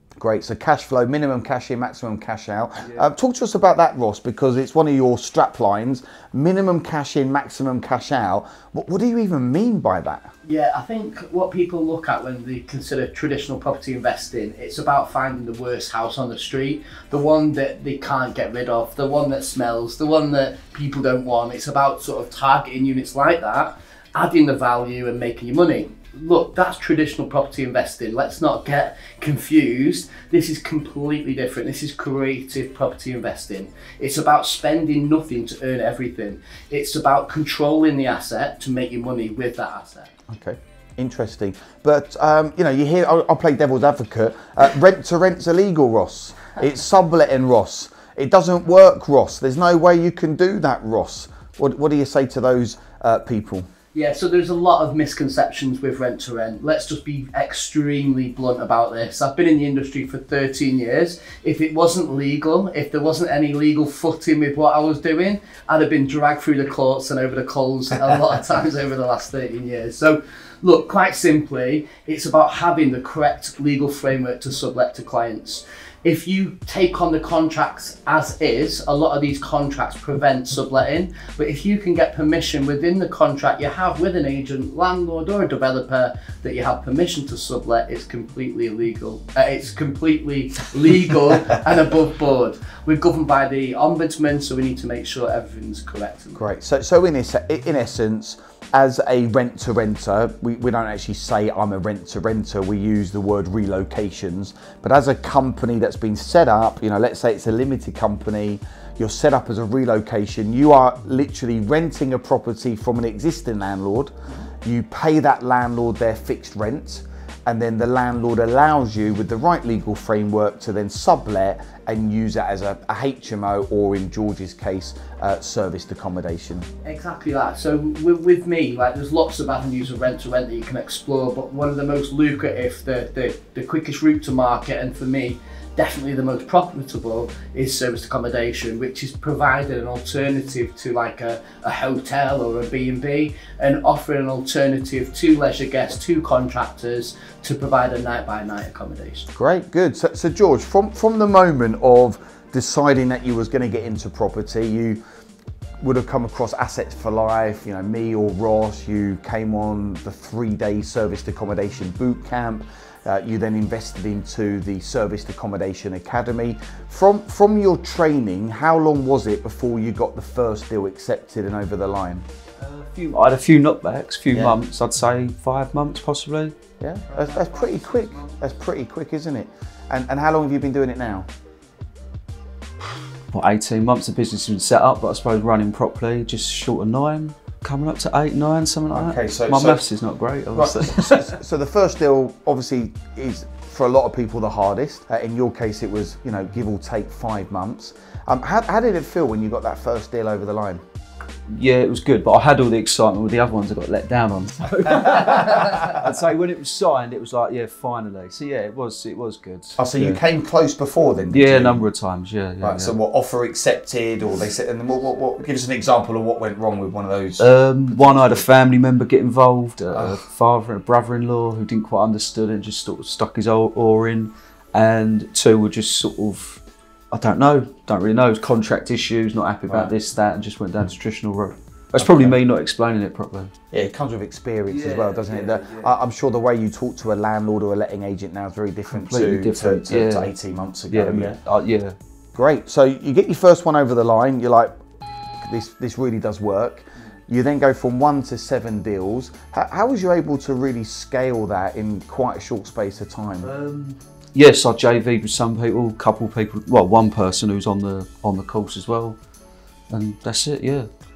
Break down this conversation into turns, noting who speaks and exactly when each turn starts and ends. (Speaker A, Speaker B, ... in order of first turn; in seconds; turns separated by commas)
Speaker A: 0.2-10.3, Speaker B: 2.8-3.1, Speaker C: 10.4-40.1, Speaker A: 40.3-53.7, Speaker C: 53.9-96.4, Speaker A: 96.3-126.7, Speaker C: 126.8-149.3, Speaker A: 149.3-155.0, Speaker A: 155.8-172.2, Speaker B: 172.6-176.5, Speaker A: 174.3-174.6, Speaker A: 176.8-181.3, Speaker B: 177.1-178.3, Speaker B: 183.3-191.4, Speaker A: 188.9-189.8, Speaker A: 190.5-200.8, Speaker B: 201.5-210.2, Speaker A: 205.0-206.0, Speaker A: 209.8-211.8, Speaker B: 211.3-212.9, Speaker A: 212.6-218.5, Speaker B: 217.4-233.5, Speaker A: 219.9-220.2, Speaker A: 229.7-229.9, Speaker A: 232.0-232.4, Speaker A: 233.7-241.4, Speaker B: 234.7-236.0, Speaker B: 238.9-240.3, Speaker B: 240.9-242.0, Speaker A: 242.3-244.8, Speaker A: 245.4-253.5, Speaker B: 253.4-259.2, Speaker B: 259.9-260.9